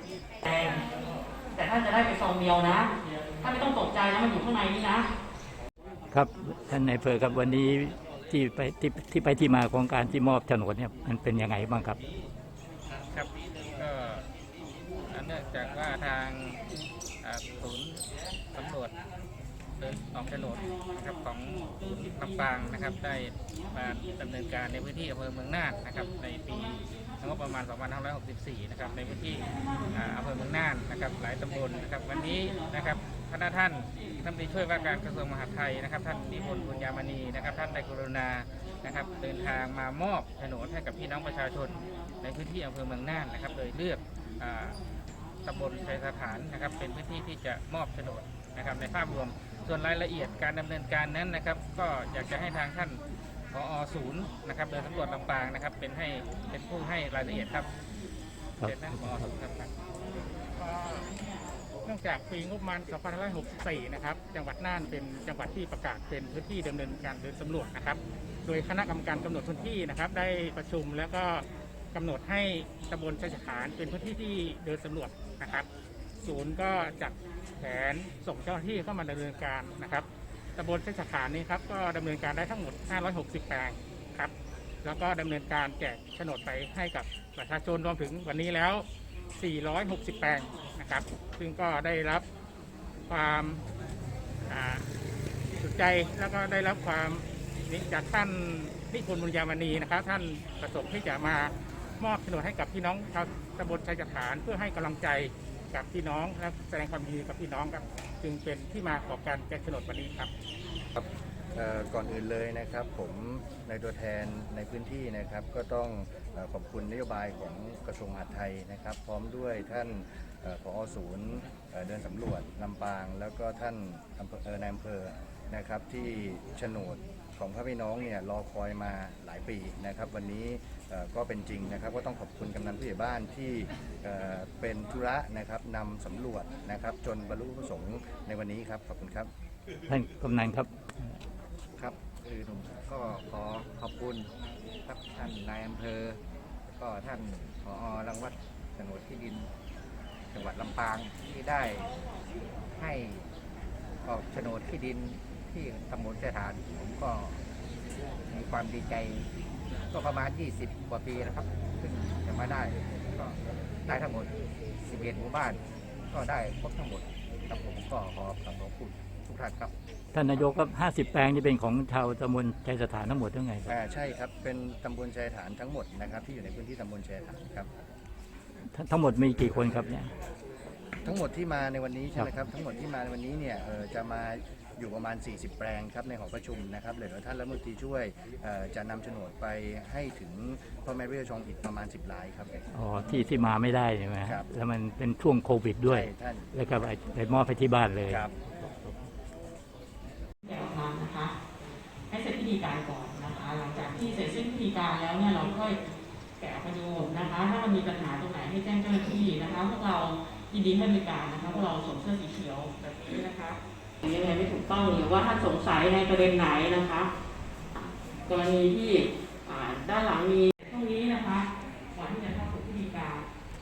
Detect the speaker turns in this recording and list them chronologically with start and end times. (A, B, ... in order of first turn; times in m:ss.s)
0:00.4-0:00.8 A
0:01.5-0:05.1 A
0:06.1-0:12.0 B
0:13.1-0:14.2 C
0:15.1-0:16.6 C
0:17.2-0:18.0 C
0:18.5-0:18.9 C
0:19.8-0:44.7 C
0:21.6-0:22.2 A
0:45.4-0:53.0 C
0:53.5-0:57.7 C
0:58.6-0:59.3 B
0:58.6-0:59.7 C
1:00.6-1:01.1 D
1:01.8-1:15.7 D
1:16.2-1:20.0 D
1:20.6-1:24.3 D
1:24.8-1:28.8 D
1:29.4-1:32.2 D
1:33.1-1:33.6 D
1:34.5-1:34.8 D
1:35.6-1:50.3 D
1:50.9-2:19.3 E
2:19.9-2:20.7 B
2:21.8-2:24.3 F
2:24.8-2:26.2 F
2:26.8-2:29.5 F
2:30.3-2:31.9 F
2:32.8-2:33.2 F
2:34.0-2:37.4 F
2:38.3-2:39.2 F
2:39.9-2:44.3 F
2:44.8-2:45.6 F
2:46.1-2:49.7 F
2:50.1-2:53.7 B
2:53.7-2:57.7 E
2:58.7-3:00.1 B
3:01.0-3:12.6 E
3:12.7-3:18.2 B
3:15.8-3:16.5 E
3:18.1-3:18.3 E
3:20.4-3:21.3 A
3:22.1-3:25.8 A
3:26.4-3:37.1 A
3:37.7-3:43.2 A